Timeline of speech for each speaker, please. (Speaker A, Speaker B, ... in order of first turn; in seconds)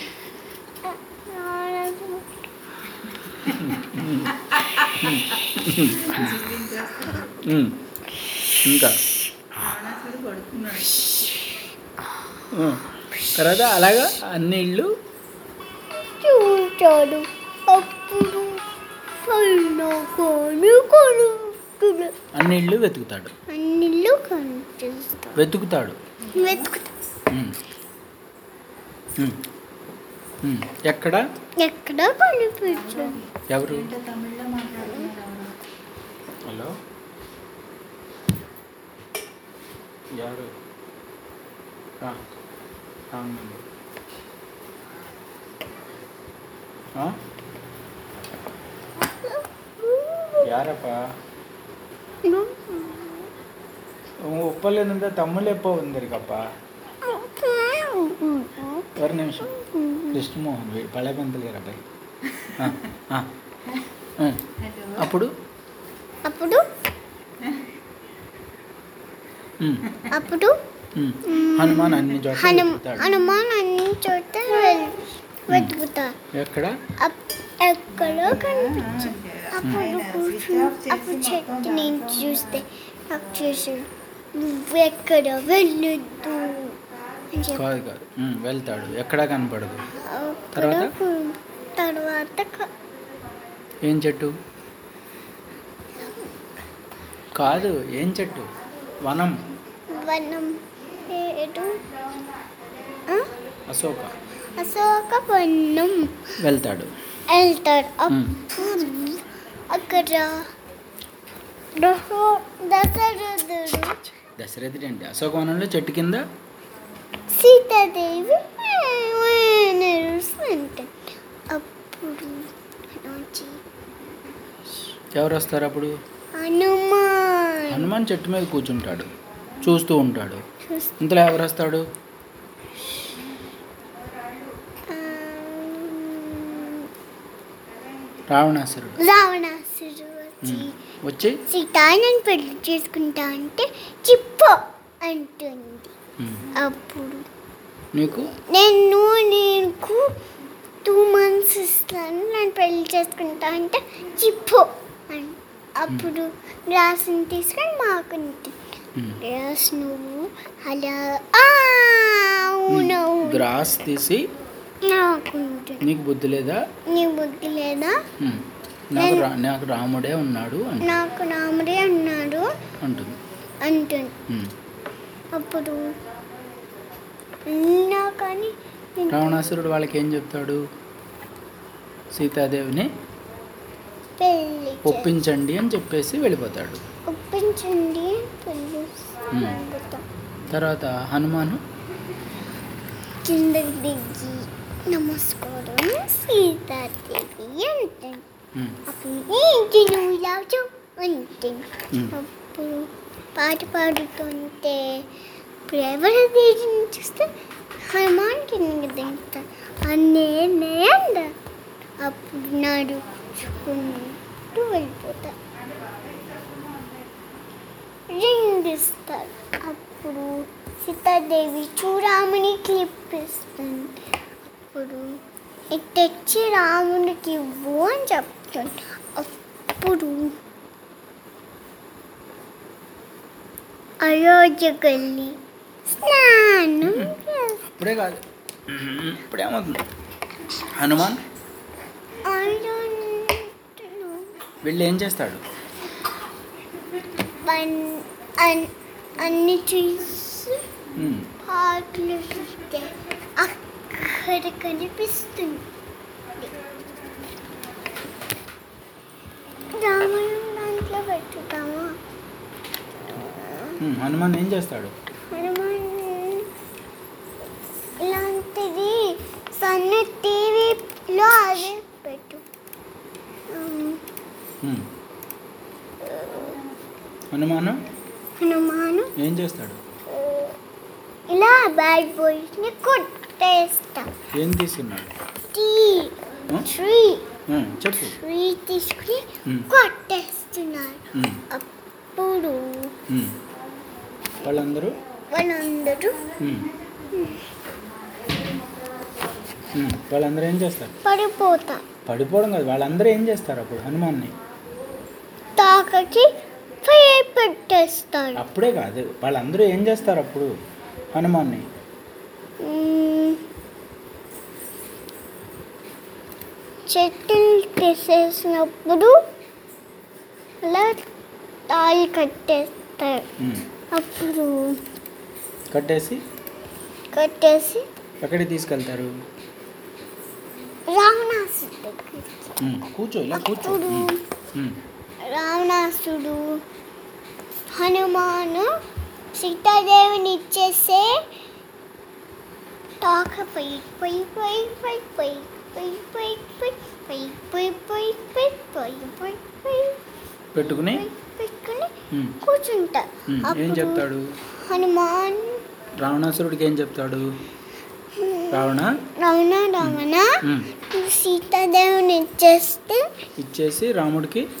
Speaker A: 0.8-2.5, 11.0-11.6, 15.9-18.6, 19.2-22.1, 23.5-25.4, 26.3-26.8, 31.6-33.2, 49.0-50.5, 52.2-53.3, 57.0-58.9, 59.4-60.2, 66.2-66.6, 70.1-70.6, 71.2-76.2, 77.0-86.8, 87.3-87.7, 90.0-92.7, 96.0-96.3, 99.9-101.8, 104.5-106.2, 107.3-110.5, 111.8-114.0, 117.3-120.9, 121.5-123.6, 126.4-127.9, 130.6-130.9, 134.9-136.9, 139.0-140.8, 141.4-145.9, 146.5-147.3, 148.3-150.2, 150.8-158.6, 159.2-163.5, 164.8-165.9, 166.9-168.0, 169.0-169.3, 170.8-172.5, 173.6-174.2, 175.3-175.9, 177.4-179.5, 184.2-185.1, 187.1-190.1, 193.2-198.2, 198.8-205.1, 205.7-207.3, 207.9-211.3, 212.0-215.3, 218.1-224.0, 224.5-225.2, 225.7-230.3, 234.0-235.4, 235.9-237.6, 242.2-244.3, 247.4-250.6, 251.4-255.7, 259.7-262.0, 263.1-263.8, 265.3-266.5, 268.0-272.4, 273.5-274.0, 276.0-276.6, 278.4-279.1, 280.1-280.6, 281.3-284.1, 285.5-287.3, 288.0-292.9, 295.3-296.2, 297.1-297.4, 301.0-301.9, 305.6-306.3, 306.8-308.4, 312.6-313.4, 316.9-319.2, 320.6-321.0, 321.7-323.2, 323.9-324.8, 327.1-327.9, 330.9-332.5, 333.3-334.2, 335.2-336.6, 337.7-338.7, 339.3-341.2, 343.0-350.0, 350.6-354.0, 354.6-355.6, 358.1-363.1
Speaker B: 3.5-6.4, 7.4-7.8, 8.6-9.0, 12.5-14.9, 22.3-23.3, 25.3-26.0, 27.3-27.6, 30.4-31.2, 33.5-33.9, 36.5-36.7, 40.1-40.5, 43.1-43.6, 50.4-51.1, 54.2-56.4, 59.0-59.5, 60.1-61.8, 62.5-63.3, 64.2-64.4, 65.0-65.3, 69.6-69.9, 70.9-73.1, 76.3-76.8, 78.8-79.9, 87.5-89.9, 90.5-90.9, 93.8-94.3, 97.3-98.5, 99.0-99.4, 103.7-104.2, 106.4-106.9, 108.1-108.3, 114.2-116.2, 125.1-125.9, 127.7-129.1, 129.6-130.4, 131.0-131.8, 138.3-139.0, 140.4-141.4, 146.2-146.5, 147.9-148.3, 162.7-164.3, 165.8-166.6, 168.2-171.0, 172.8-173.2, 174.3-174.5, 179.1-180.6, 182.1-182.9, 184.8-186.8, 189.3-189.6, 190.5-191.6, 236.8-237.1, 237.7-239.8, 240.7-241.2, 244.6-245.4, 250.9-251.3, 263.8-264.9, 274.6-274.9, 277.3-277.8, 279.2-279.8, 284.3-285.1, 287.5-288.2, 291.1-291.4, 293.1-293.4, 294.4-295.0, 296.4-296.7, 299.7-300.9, 302.1-304.3, 308.4-310.5, 311.1-311.6, 323.4-323.6, 325.7-326.2, 328.2-329.1, 332.6-334.8, 350.5-351.0, 352.1-352.4, 353.3-354.3, 356.0-357.4, 358.5-359.0, 359.8-360.7, 363.4-364.5
Speaker C: 5.7-7.4, 9.5-11.3, 26.3-26.7, 32.7-35.5, 64.6-65.1, 78.0-82.6